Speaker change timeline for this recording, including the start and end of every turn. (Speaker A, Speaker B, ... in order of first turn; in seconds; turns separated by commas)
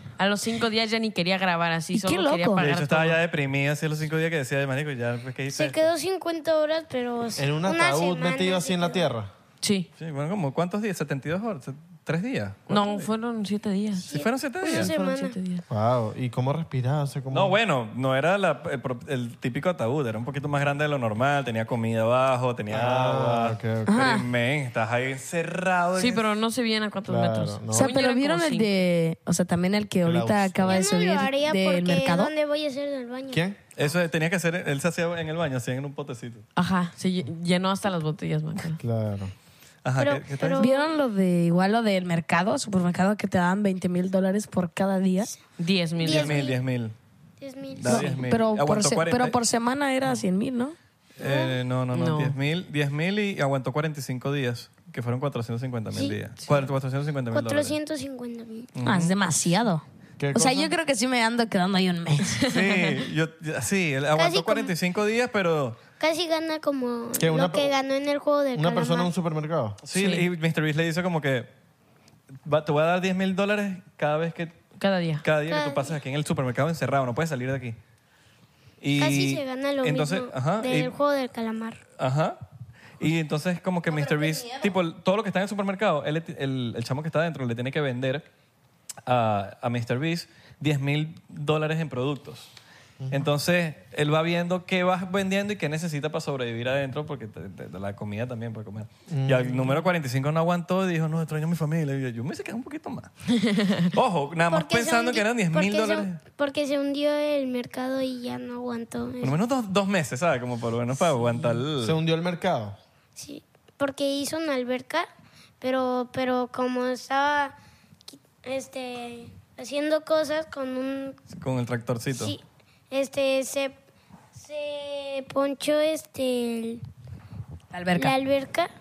Speaker A: 0.2-3.2, Speaker B: 1.9-2.6, Speaker C: 2.6-5.9, Speaker D: 5.5-9.0, Speaker E: 7.4-9.3, Speaker A: 9.6-9.9, Speaker C: 10.0-13.1, Speaker A: 12.7-14.1, Speaker C: 14.1-14.9, Speaker D: 14.1-15.3, Speaker A: 14.6-15.6, Speaker E: 15.7-17.6, Speaker C: 17.3-26.2, Speaker E: 22.7-24.1, Speaker B: 23.9-24.2, Speaker A: 25.9-28.7, Speaker E: 27.1-27.9, Speaker B: 27.7-32.3, Speaker E: 30.0-30.9, Speaker D: 30.7-33.4, Speaker E: 33.3-33.6, Speaker C: 33.8-36.5, Speaker A: 36.5-38.8, Speaker E: 38.8-39.3, Speaker C: 39.8-40.7, Speaker D: 40.0-40.9, Speaker B: 40.6-45.3, Speaker A: 45.6-46.4, Speaker D: 46.0-46.6, Speaker C: 46.0-46.9, Speaker D: 47.4-48.1, Speaker C: 47.7-49.4, Speaker B: 47.9-50.8, Speaker C: 51.2-57.8, Speaker D: 51.2-51.6, Speaker A: 51.9-52.4, Speaker D: 57.3-58.7, Speaker C: 58.7-59.1, Speaker B: 58.8-59.8, Speaker E: 60.2-60.7, Speaker B: 60.3-62.4, Speaker A: 62.3-63.0, Speaker C: 62.5-65.8, Speaker D: 64.1-64.7, Speaker D: 66.0-69.1, Speaker E: 67.2-67.7, Speaker E: 68.5-69.8, Speaker C: 69.8-71.5, Speaker A: 69.9-70.2, Speaker C: 72.4-74.5, Speaker A: 74.8-75.2, Speaker C: 75.2-77.8, Speaker D: 75.5-76.0, Speaker C: 78.8-80.9, Speaker D: 79.0-81.8, Speaker C: 82.0-82.4, Speaker C: 83.0-88.2, Speaker B: 83.9-84.7, Speaker C: 89.0-92.5, Speaker E: 93.0-93.2, Speaker C: 93.1-103.1, Speaker E: 99.1-99.7, Speaker A: 103.3-103.9, Speaker C: 103.9-106.2, Speaker D: 104.5-109.4, Speaker C: 109.2-112.0, Speaker A: 111.1-111.6, Speaker E: 111.8-112.8, Speaker D: 113.2-115.1, Speaker D: 115.6-117.5, Speaker D: 118.1-121.2, Speaker C: 121.3-122.3, Speaker D: 122.1-123.7, Speaker D: 124.3-126.8, Speaker B: 127.7-128.2, Speaker D: 127.9-128.7